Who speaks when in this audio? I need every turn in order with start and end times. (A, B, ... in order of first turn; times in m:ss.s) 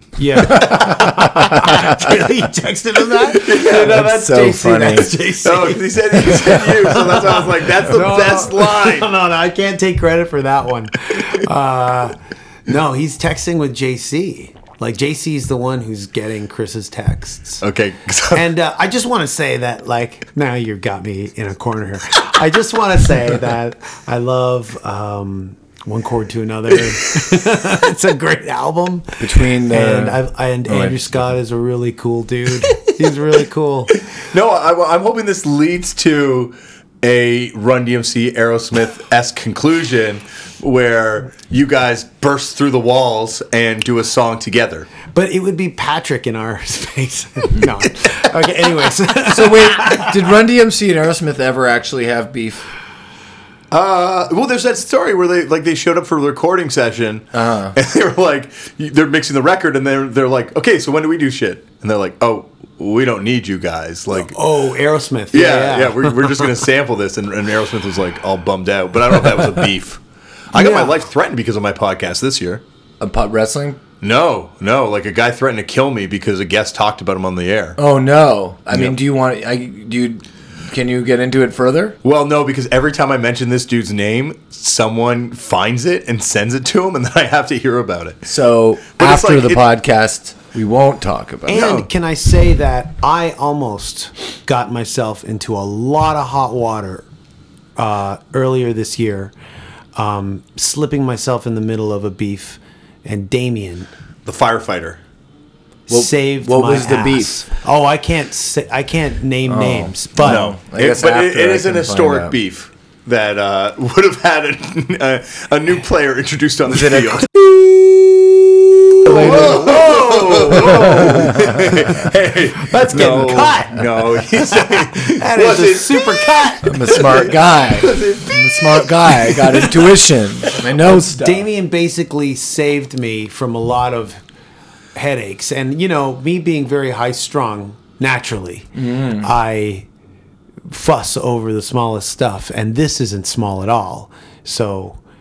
0:00.2-0:17.6 A
0:00.4-0:01.1 B
0:00.4-0:02.1 C
0:03.3-0:04.0 B
0:03.4-0:05.2 C
0:05.4-0:09.1 B
0:17.6-0:18.4 B
0:18.3-0:33.9 A
0:29.2-0:31.1 C
0:34.2-0:44.9 B
0:45.1-0:50.1 A
0:49.3-0:52.7 C
0:53.7-1:04.4 B
0:57.3-0:57.8 C
1:04.1-1:06.4 A
1:05.3-1:10.0 B
1:10.5-1:12.6 B
1:10.5-1:10.9 A
1:13.0-1:13.8 C
1:14.0-1:17.8 B
1:17.8-1:22.0 C
1:22.0-1:28.3 B
1:28.2-1:31.6 C
1:29.0-1:29.6 B
1:31.5-1:37.1 A
1:31.5-1:31.9 B
1:37.8-1:39.3 A
1:39.9-1:43.9 A
1:44.2-1:45.0 B
1:45.9-1:47.4 C
1:45.9-1:50.5 A
1:49.4-1:52.3 C
1:50.2-1:57.3 B
1:57.6-2:01.4 A
1:59.1-1:59.6 C
1:59.1-2:09.8 B
2:02.6-2:07.2 A
2:06.6-2:11.5 C
2:10.9-2:14.2 A
2:14.9-2:19.9 A
2:18.8-2:19.3 C
2:20.7-2:25.0 A